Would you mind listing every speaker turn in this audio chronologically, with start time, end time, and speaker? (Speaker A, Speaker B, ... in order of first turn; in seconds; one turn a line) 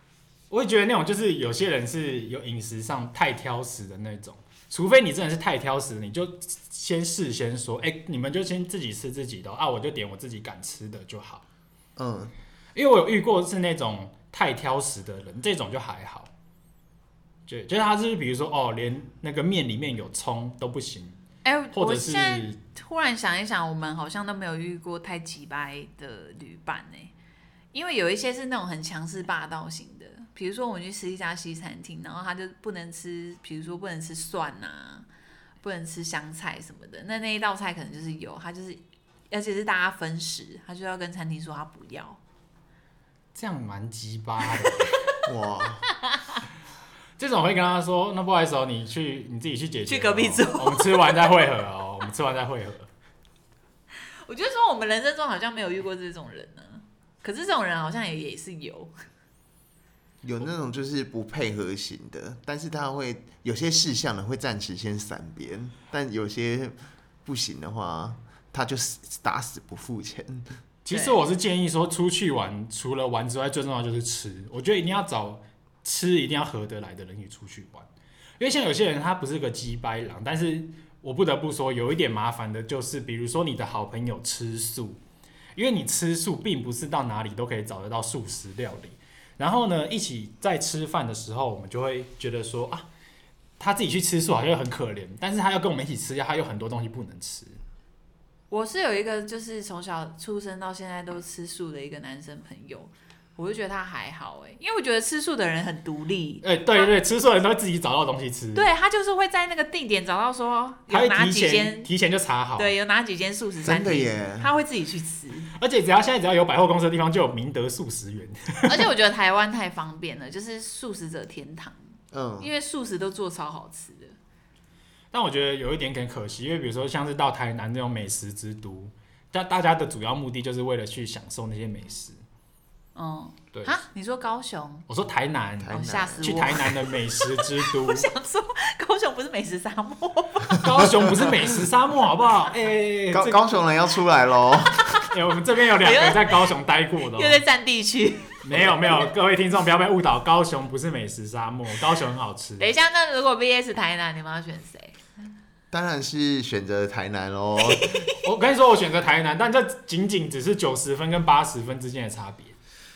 Speaker A: 0.5-11.4
Speaker B: 12.0-12.3
Speaker A: 12.7-16.3
Speaker A: 17.5-21.2
Speaker C: 21.4-27.1
Speaker A: 21.7-22.6
Speaker C: 27.7-35.0
Speaker C: 35.6-42.2
Speaker A: 43.3-44.9
Speaker B: 45.2-45.8
Speaker C: 45.9-46.4
Speaker A: 47.2-52.9
Speaker C: 49.9-51.3
Speaker C: 54.2-58.9
Speaker B: 60.2-70.5
Speaker A: 70.8-77.9
Speaker C: 70.9-71.2
Speaker A: 78.4-85.0
Speaker A: 85.5-92.8
Speaker A: 93.6-97.5
Speaker C: 98.5-106.9
Speaker A: 106.4-108.7
Speaker C: 108.5-111.9
Speaker A: 110.9-112.7
Speaker C: 112.6-115.5
Speaker B: 113.6-114.5
Speaker A: 115.5-118.9
Speaker C: 118.7-121.8
Speaker B: 122.1-122.5
Speaker C: 122.4-124.2
Speaker A: 125.1-132.2
Speaker C: 132.9-134.8
Speaker A: 134.9-138.1
Speaker B: 135.6-136.6
Speaker C: 135.7-140.6
Speaker A: 140.6-143.4
Speaker B: 140.8-141.3
Speaker B: 143.1-144.8
Speaker A: 145.1-147.4
Speaker C: 145.8-146.4
Speaker C: 147.1-148.4
Speaker A: 148.4-152.7
Speaker C: 152.6-155.0
Speaker B: 155.7-158.1
Speaker A: 158.2-162.5